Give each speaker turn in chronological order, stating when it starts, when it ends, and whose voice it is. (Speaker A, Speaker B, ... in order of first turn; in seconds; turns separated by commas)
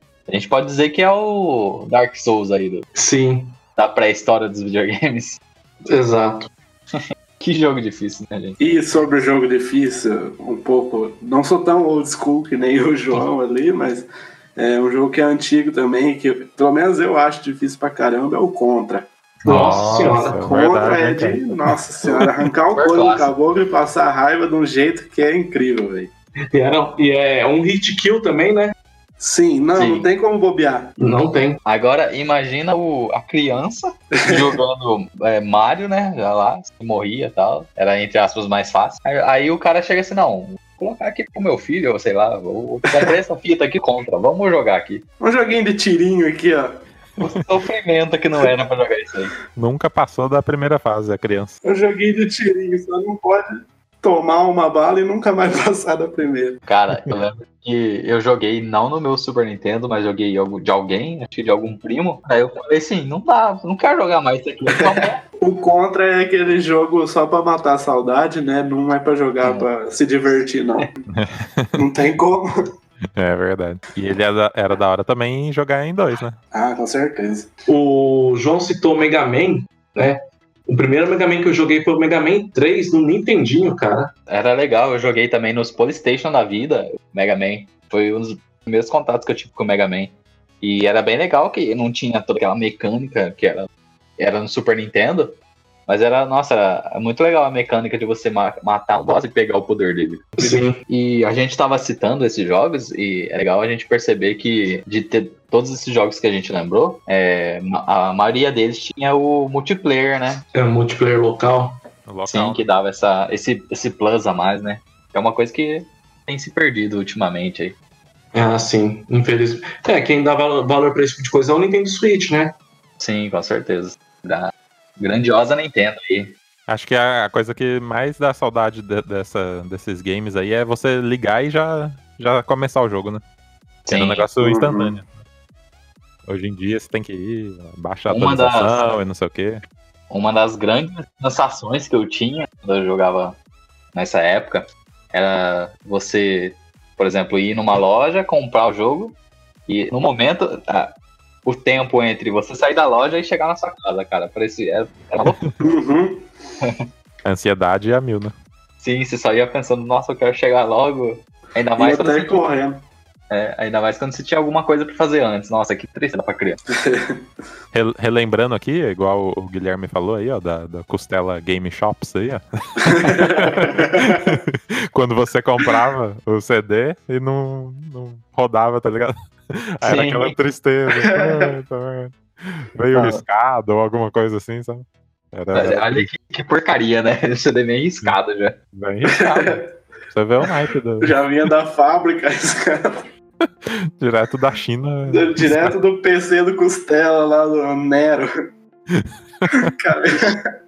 Speaker A: 0.3-2.9, Speaker B: 3.0-3.6, Speaker A: 3.8-5.4, Speaker B: 5.9-6.5, Speaker A: 7.0-8.6, Speaker C: 8.6-19.1, Speaker B: 19.4-20.4, Speaker D: 19.4-22.1, Speaker C: 20.3-26.1, Speaker A: 22.8-23.3, Speaker B: 26.5-28.8, Speaker C: 29.2-30.9, Speaker A: 29.8-30.1, Speaker B: 31.0-31.6, Speaker A: 31.6-45.0, Speaker C: 34.2-34.5, Speaker C: 45.2-46.8, Speaker A: 47.2-49.3, Speaker D: 49.6-51.6, Speaker C: 51.6-56.6, Speaker A: 56.7-65.2, Speaker C: 64.8-71.0, Speaker A: 69.4-69.7, Speaker D: 71.1-71.8, Speaker C: 71.8-72.5, Speaker D: 73.2-76.4, Speaker C: 76.5-77.5, Speaker B: 77.7-84.1, Speaker A: 84.3-95.3, Speaker A: 95.9-110.4, Speaker B: 100.4-100.8, Speaker B: 110.5-111.8, Speaker D: 112.1-112.6, Speaker A: 112.3-117.8, Speaker B: 118.3-122.5, Speaker A: 123.0-126.3, Speaker D: 126.7-133.2, Speaker A: 133.8-134.3, Speaker D: 133.9-135.2, Speaker C: 134.4-135.0, Speaker D: 136.3-139.6, Speaker A: 138.1-138.8, Speaker A: 140.1-143.4, Speaker A: 143.9-149.2, Speaker A: 149.7-150.9, Speaker A: 151.4-155.4, Speaker C: 155.6-156.3, Speaker D: 157.2-158.3, Speaker A: 158.8-162.4, Speaker C: 161.8-162.8, Speaker A: 163.3-166.6, Speaker C: 166.7-167.2, Speaker D: 167.7-186.1, Speaker C: 172.8-174.4, Speaker A: 179.8-180.4, Speaker C: 180.9-181.5, Speaker A: 182.9-183.2, Speaker A: 185.5-188.6, Speaker D: 188.7-189.6, Speaker C: 189.2-189.7, Speaker D: 190.1-191.2, Speaker C: 191.0-193.1, Speaker D: 193.7-195.8, Speaker C: 195.1-198.3, Speaker D: 198.9-199.7, Speaker C: 199.5-200.5